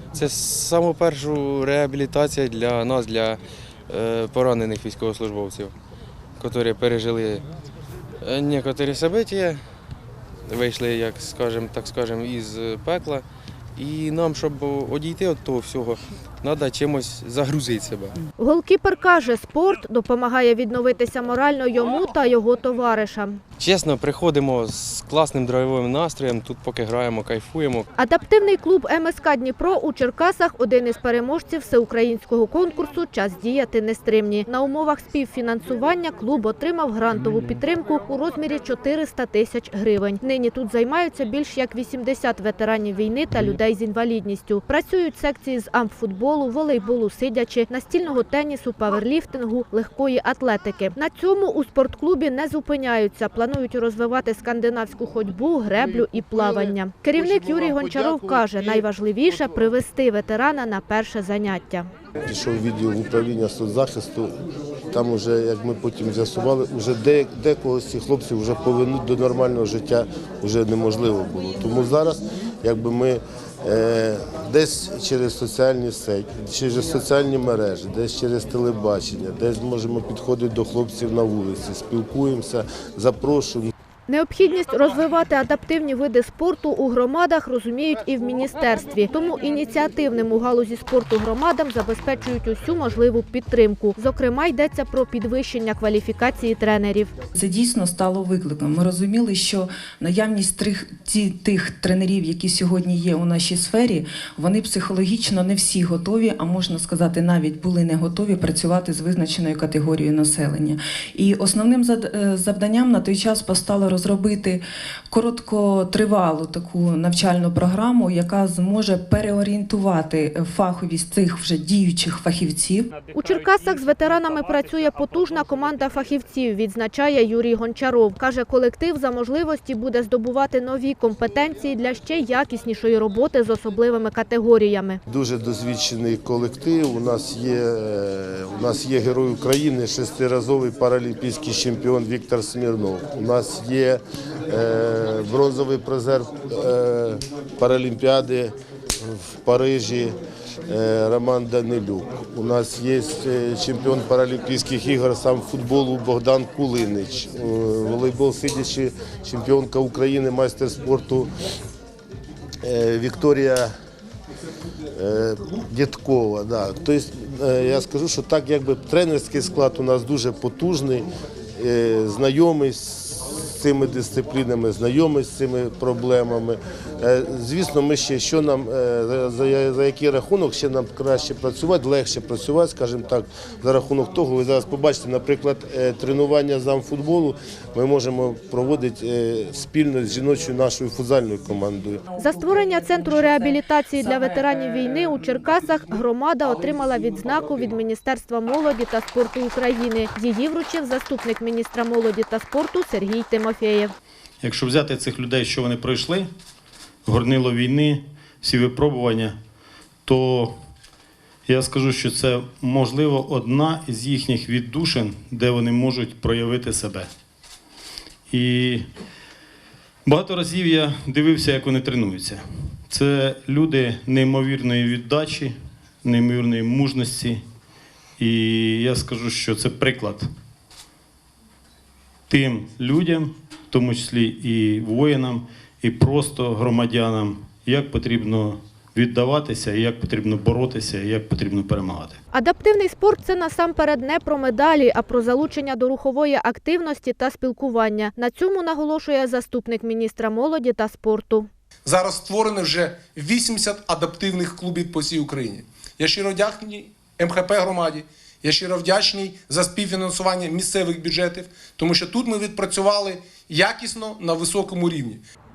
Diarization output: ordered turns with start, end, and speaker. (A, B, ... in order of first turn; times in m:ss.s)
0:00.1-0:05.7 A
0:06.4-0:07.4 A
0:08.2-0:09.6 A
0:10.5-0:18.2 A
0:18.4-0:23.4 B
0:23.6-0:27.9 A
0:28.0-1:01.9 B
0:55.8-0:59.6 C
1:02.2-1:04.3 C
1:04.9-1:23.7 C
1:24.1-1:37.1 B
1:37.3-2:02.9 D
2:03.1-2:15.0 B
2:15.1-2:30.2 C
2:30.7-2:41.3 C
2:42.6-2:43.7 C
2:45.0-3:12.0 C
3:12.1-3:13.4 D
3:12.2-3:23.9 B
3:24.4-3:26.3 E
3:27.0-3:29.4 E
3:30.0-3:30.5 E
3:31.5-3:37.1 E
3:38.3-3:38.8 E
3:40.0-3:45.5 E
3:46.0-3:47.4 E
3:48.2-3:50.2 E
3:52.3-4:02.2 E
4:02.3-4:11.5 B
4:11.8-4:25.2 F